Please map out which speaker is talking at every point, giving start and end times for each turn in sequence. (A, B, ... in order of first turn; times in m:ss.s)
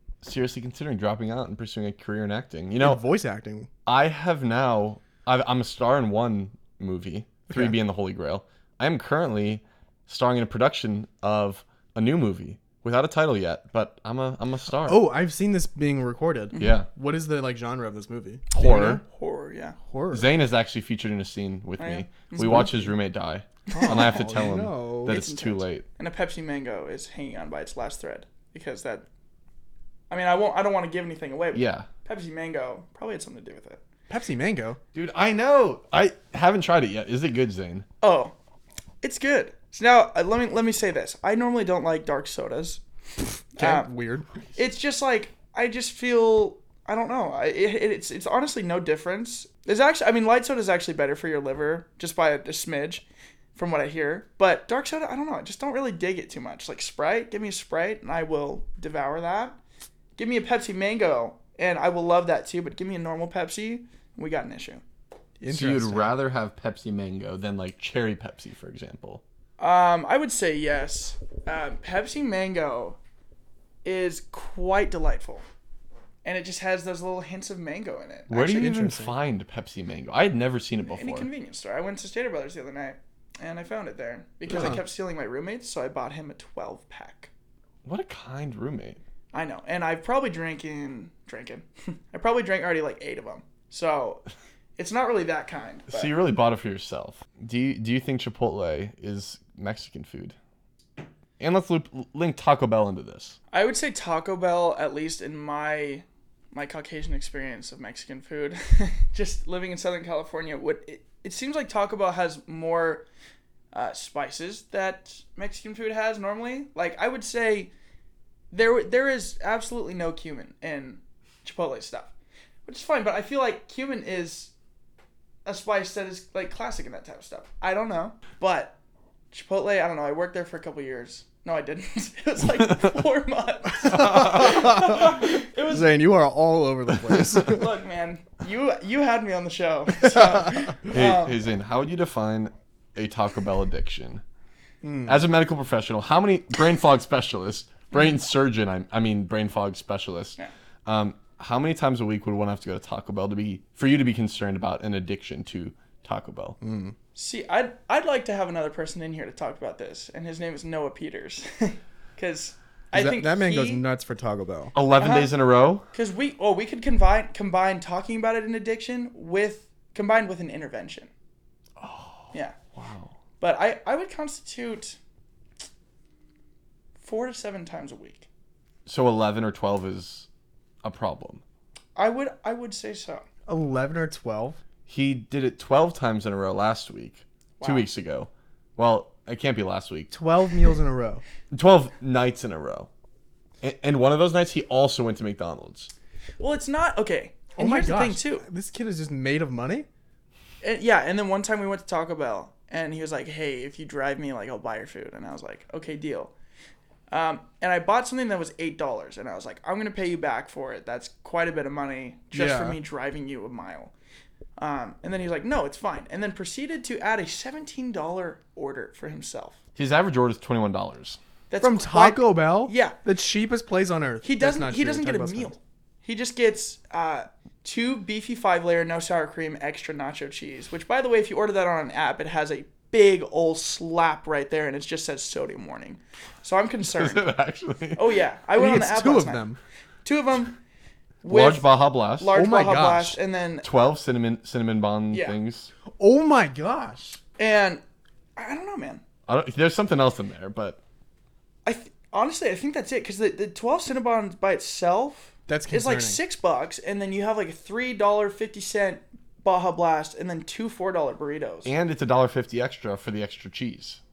0:00.2-0:03.0 A
0:02.8-0:03.7 B
0:03.9-0:15.0 A
0:07.5-0:07.8 B
0:14.8-0:19.0 B
0:16.5-0:16.8 C
0:16.6-0:16.9 A
0:18.5-0:19.0 A
0:18.6-0:19.8 C
0:19.8-0:20.3 B
0:20.1-0:25.8 A
0:21.8-0:22.8 C
0:22.4-0:22.8 B
0:23.7-0:24.3 C
0:23.7-0:25.2 B
0:25.0-0:29.0 C
0:30.1-0:33.8 C
0:31.5-0:31.9 A
0:34.1-0:34.8 B
0:34.9-0:37.9 A
0:38.0-0:38.3 C
0:39.0-0:42.8 C
0:43.6-0:43.9 C
0:43.6-0:44.6 B
0:44.6-0:59.6 C
1:00.2-1:04.8 C
1:05.4-1:06.1 B
1:05.5-1:09.2 A
1:09.6-1:13.0 C
1:13.8-1:15.4 C
1:16.2-1:18.7 C
1:18.3-1:21.3 A
1:18.4-1:19.1 B
1:20.8-1:27.3 C
1:24.5-1:24.8 B
1:27.8-1:29.0 A
1:29.3-1:34.2 C
1:34.8-1:36.1 C
1:35.9-1:40.4 A
1:41.4-1:43.4 A
1:43.5-1:53.1 C
1:53.7-1:57.7 C
1:58.5-2:02.1 C
2:02.6-2:04.5 C
2:05.4-2:08.8 C
2:09.3-2:15.9 C
2:13.9-2:17.7 B
2:13.9-2:14.4 A
2:17.5-2:21.4 C
2:20.0-2:20.6 B
2:20.9-2:24.2 A
2:24.8-2:25.2 B
2:25.0-2:36.6 A
2:36.6-2:37.0 B
2:37.1-2:43.8 C
2:42.9-2:44.7 B
2:44.7-2:45.9 A
2:45.0-2:45.3 C
2:45.9-2:51.1 C
2:51.8-2:53.1 A
2:53.4-2:55.0 C
2:57.0-2:58.3 C
2:58.9-3:00.3 A
3:00.8-3:01.4 A
3:02.0-3:03.2 C
3:03.5-3:04.6 B
3:04.9-3:10.1 A
3:07.6-3:07.9 C
3:10.1-3:11.2 B
3:11.5-3:12.9 A
3:13.6-3:15.9 A
3:16.4-3:18.4 C
3:17.6-3:19.9 B
3:20.6-3:26.3 C
3:27.1-3:33.9 C
3:32.3-3:32.8 B
3:34.6-3:39.6 C
3:39.8-3:41.2 A
3:41.5-3:43.0 C
3:41.6-3:45.6 B
3:44.2-3:57.2 C
3:56.9-3:58.2 A
3:57.9-3:59.4 C
3:58.6-3:59.6 B
4:00.0-4:00.6 C
4:01.2-4:03.6 C
4:01.3-4:02.3 A
4:02.3-4:03.2 B
4:03.6-4:05.7 A
4:05.1-4:05.4 C
4:05.9-4:07.2 B
4:07.4-4:07.8 C
4:08.4-4:09.0 C
4:09.3-4:10.8 A
4:11.6-4:21.7 C
4:15.5-4:16.2 B
4:21.6-4:24.0 A